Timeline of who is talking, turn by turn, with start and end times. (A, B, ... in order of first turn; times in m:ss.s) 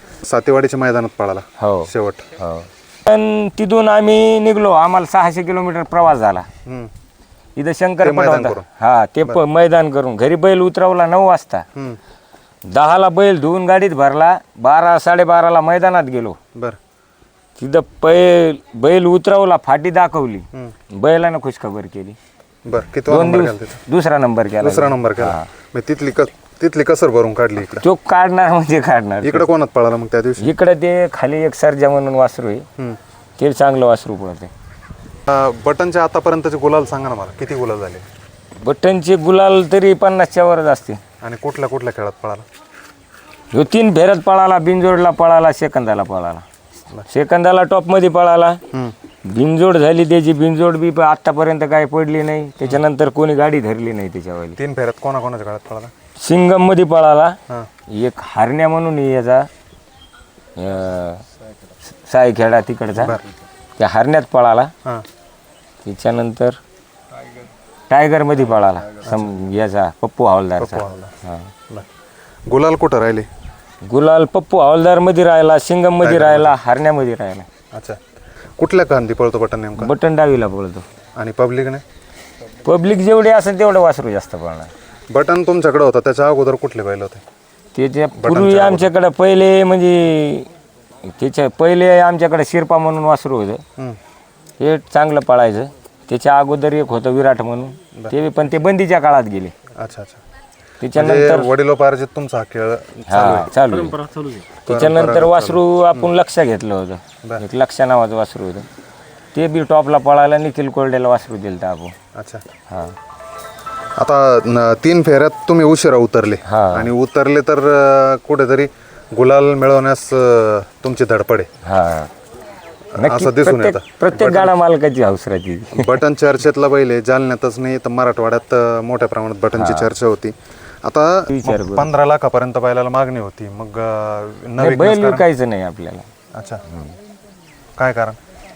0:00.2-0:02.3 A
0:01.6-0:06.5 B
0:06.6-0:06.9 A
0:07.6-0:11.6 B
0:08.0-0:08.6 A
0:12.7-0:16.4 B
0:17.6-0:22.2 B
0:22.6-0:23.8 A
0:23.1-0:25.5 B
0:24.6-0:27.8 A
0:27.8-0:29.5 B
0:29.2-0:30.5 A
0:30.4-0:32.6 B
0:33.4-0:34.5 B
0:35.3-0:38.0 A
0:38.6-0:41.0 B
0:41.2-0:42.4 A
0:43.5-0:46.4 B
0:47.1-0:48.6 B
0:49.3-0:54.6 B
0:54.6-0:55.9 A
0:56.2-0:57.4 B
0:57.9-0:59.5 B
1:00.6-1:01.2 B
1:02.0-1:03.2 B
1:03.0-1:03.2 A
1:03.8-1:04.7 B
1:05.8-1:06.6 B
1:07.9-1:11.5 B
1:09.0-1:09.3 A
1:10.6-1:11.1 A
1:12.5-1:13.3 A
1:13.8-1:17.5 B
1:16.0-1:16.6 A
1:17.7-1:18.0 A
1:18.6-1:19.9 A
1:19.8-1:20.8 B
1:21.2-1:21.8 A
1:22.6-1:24.7 B
1:25.1-1:27.2 A
1:27.7-1:30.5 B
1:28.2-1:28.9 A
1:31.0-1:33.6 B
1:34.6-1:39.5 B
1:39.8-1:40.2 A
1:40.8-1:41.5 B
1:40.9-1:43.5 A
1:43.1-1:44.0 B
1:44.7-1:46.1 A
1:44.7-1:48.6 B
1:49.3-1:51.9 B
1:52.1-1:52.4 A
1:52.7-1:52.9 B
1:54.0-2:01.5 A
1:56.5-1:56.9 B
2:01.6-2:02.1 B
2:03.0-2:04.5 A
2:03.0-2:05.9 B
2:05.7-2:15.2 A
2:09.6-2:09.9 B
2:11.3-2:11.9 B
2:14.6-2:16.0 B
2:16.3-2:16.6 A
2:17.8-2:18.2 A